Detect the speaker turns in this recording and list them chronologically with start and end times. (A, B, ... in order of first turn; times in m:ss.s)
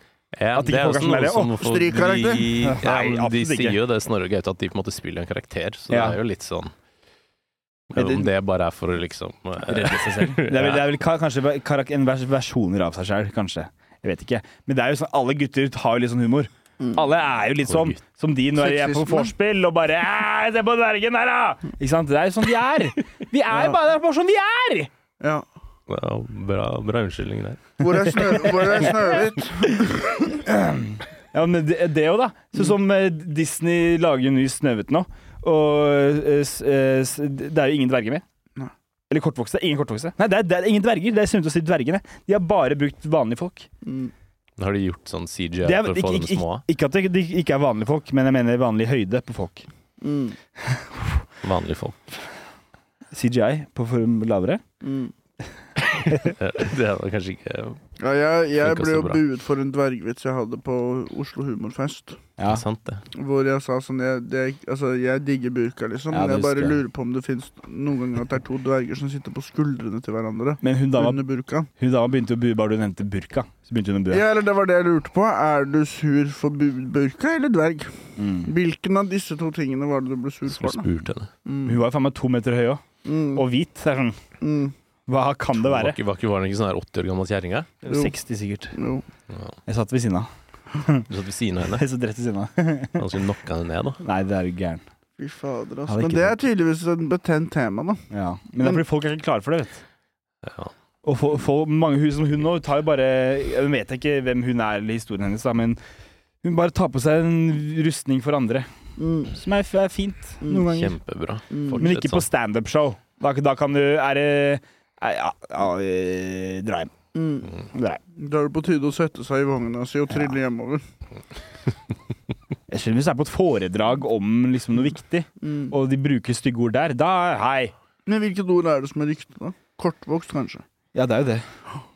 0:00.3-0:06.7 A
0:00.5-0:01.6 B
0:01.6-0:02.5 C
0:02.6-0:03.8 B
0:05.9-0:06.2 B
0:07.9-0:10.9 A
0:07.9-0:08.3 B
0:09.6-0:24.9 B
0:17.7-0:18.0 A
0:18.6-0:19.3 C
0:25.9-0:28.1 A
0:27.8-0:30.2 C
0:29.7-0:38.2 B
0:39.1-0:43.7 B
0:43.8-0:44.1 C
0:44.6-0:46.6 A
0:45.6-0:49.6 B
0:50.0-0:50.4 C
0:50.6-0:51.2 B
0:51.4-0:52.1 A
0:53.1-0:54.6 B
0:54.8-0:55.1 C
0:55.8-0:57.8 A
0:58.0-1:02.2 C
0:58.6-0:59.2 A
1:02.4-1:02.6 B
1:02.4-1:03.0 A
1:03.1-1:11.7 C
1:06.1-1:06.8 B
1:10.6-1:11.2 B
1:11.8-1:14.2 B
1:14.1-1:20.9 C
1:18.2-1:18.5 B
1:20.5-1:21.3 A
1:21.4-1:21.8 C
1:21.6-1:22.8 B
1:23.0-1:23.4 C
1:23.3-1:24.2 B
1:24.4-1:24.7 C
1:25.1-1:26.0 B
1:25.6-1:27.7 A
1:27.8-1:28.7 B
1:27.9-1:28.1 C
1:28.7-1:29.0 C
1:29.3-1:29.6 A
1:29.6-1:31.1 B
1:31.1-1:31.8 A
1:31.7-1:33.1 B
1:33.0-1:34.0 A
1:34.0-1:34.8 B
1:35.2-1:38.0 C
1:35.9-1:36.4 B
1:38.1-1:39.8 B
1:40.4-1:40.7 A
1:41.0-1:45.8 B
1:46.4-1:48.7 B
1:49.0-1:49.3 C
1:49.3-1:51.0 B
1:50.6-1:52.3 A
1:51.5-1:51.8 C
1:51.8-1:56.9 B
1:57.1-1:57.5 C
1:57.7-1:58.0 B
1:58.1-2:00.8 C
2:02.7-2:07.7 B
2:05.4-2:05.7 C
2:08.0-2:10.6 C
2:10.9-2:11.4 B